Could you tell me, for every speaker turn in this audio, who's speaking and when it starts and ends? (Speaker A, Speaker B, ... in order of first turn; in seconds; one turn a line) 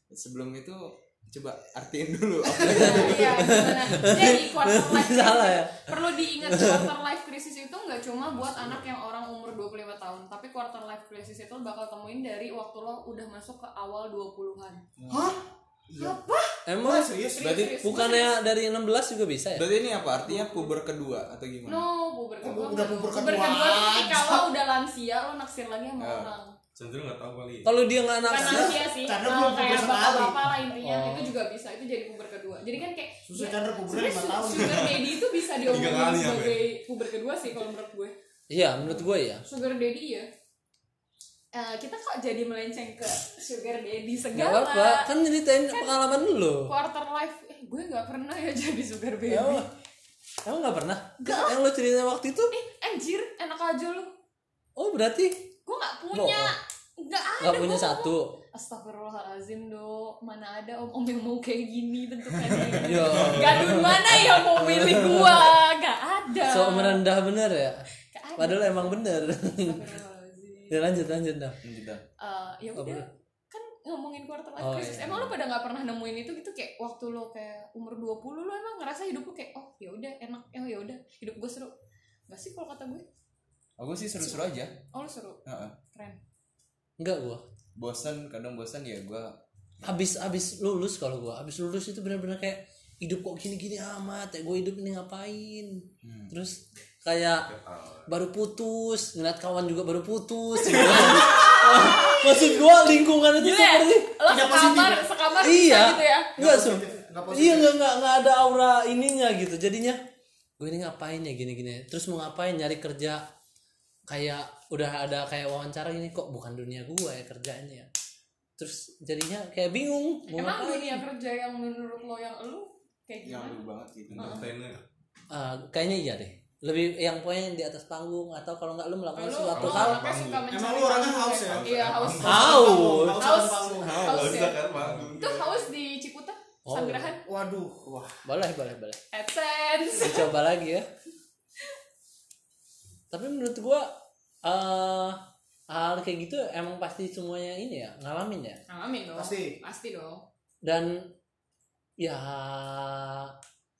Speaker A: 0.1-3.5
Speaker B: 2.6-3.1
Speaker C: 2.6-14.8
Speaker D: 2.8-5.8
Speaker D: 6.5-6.9
Speaker E: 8.2-8.8
Speaker B: 15.1-15.4
Speaker B: 15.9-16.2
Speaker C: 16.0-16.6
Speaker D: 16.7-17.1
Speaker B: 16.8-17.6
Speaker C: 17.4-18.4
Speaker A: 17.4-17.8
Speaker D: 17.8-19.7
Speaker A: 19.6-21.9
Speaker C: 20.2-20.8
Speaker C: 21.7-26.6
Speaker B: 22.4-24.5
Speaker A: 26.0-26.3
Speaker E: 26.8-27.7
Speaker D: 27.6-28.8
Speaker C: 28.2-38.1
Speaker B: 28.4-30.4
Speaker D: 30.8-31.3
Speaker B: 33.3-34.9
Speaker E: 34.7-36.6
Speaker D: 38.5-39.5
Speaker C: 39.5-40.3
Speaker C: 41.5-45.1
Speaker D: 44.4-46.7
Speaker C: 45.7-46.0
Speaker C: 46.6-49.7
Speaker D: 49.3-49.7
Speaker D: 50.5-52.5
Speaker C: 51.2-51.5
Speaker C: 52.5-54.1
Speaker D: 54.8-55.5
Speaker C: 55.7-67.0
Speaker D: 56.1-56.5
Speaker D: 57.4-58.3
Speaker D: 62.7-65.6
Speaker E: 63.2-63.5
Speaker D: 66.4-67.8
Speaker C: 68.1-69.0
Speaker D: 68.4-69.8
Speaker C: 69.5-70.8
Speaker D: 70.7-71.6
Speaker A: 71.6-72.0
Speaker C: 72.2-81.7
Speaker D: 72.8-73.0
Speaker D: 74.6-75.3
Speaker C: 82.3-83.0
Speaker A: 83.8-84.7
Speaker C: 84.9-85.4
Speaker A: 85.5-85.8
Speaker C: 85.9-86.2
Speaker D: 87.0-87.5
Speaker A: 87.8-89.3
Speaker D: 89.8-97.5
Speaker A: 96.0-96.3
Speaker E: 97.4-98.1
Speaker D: 98.1-104.1
Speaker C: 100.7-106.3
Speaker B: 104.3-105.1
Speaker D: 105.4-110.0
Speaker B: 106.4-107.7
Speaker D: 110.6-113.2
Speaker D: 114.1-117.9
Speaker D: 118.6-121.0
Speaker C: 120.3-124.5
Speaker A: 123.2-124.4
Speaker E: 124.1-124.8
Speaker D: 125.3-130.1
Speaker C: 129.2-134.6
Speaker E: 129.5-130.5
Speaker B: 130.5-134.4
Speaker E: 131.5-132.5
Speaker D: 132.2-133.3
Speaker E: 133.8-135.7
Speaker A: 134.8-135.1
Speaker C: 135.2-137.2
Speaker D: 136.7-137.1
Speaker B: 137.2-138.1
Speaker D: 138.2-139.0
Speaker C: 139.1-140.3
Speaker D: 140.0-140.9
Speaker D: 143.1-143.9
Speaker D: 144.4-148.6
Speaker C: 148.7-150.2
Speaker B: 149.2-149.6
Speaker D: 150.6-151.1
Speaker D: 152.0-153.3